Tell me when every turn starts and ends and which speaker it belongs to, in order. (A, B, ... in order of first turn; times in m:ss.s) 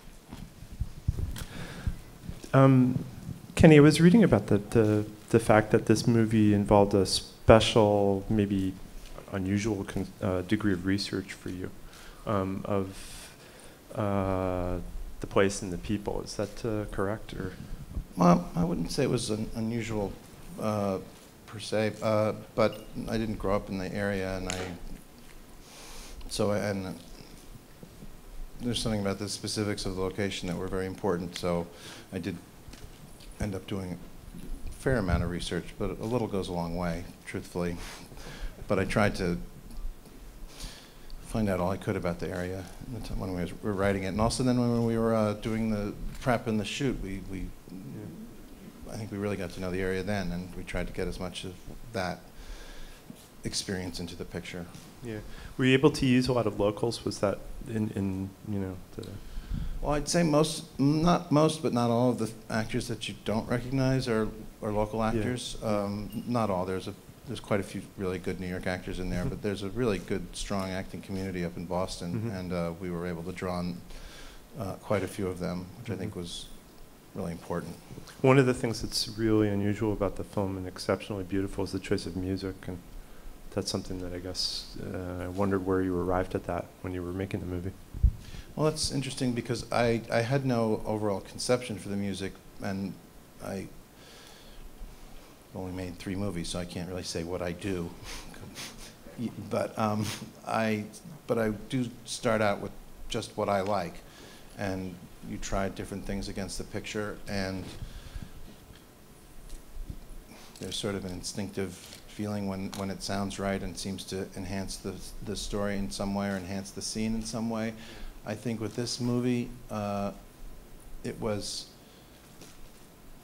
0:02.5-0:17.8 A
0:18.1-0:25.6 B
0:26.2-0:27.6 B
0:28.6-0:40.2 B
0:41.2-0:54.9 B
0:55.0-0:59.4 A
0:59.8-1:17.9 B
1:05.1-1:05.9 A
1:15.9-1:16.1 A
1:18.0-1:27.8 A
1:28.5-1:34.5 B
1:35.5-1:47.9 B
1:50.6-2:01.8 B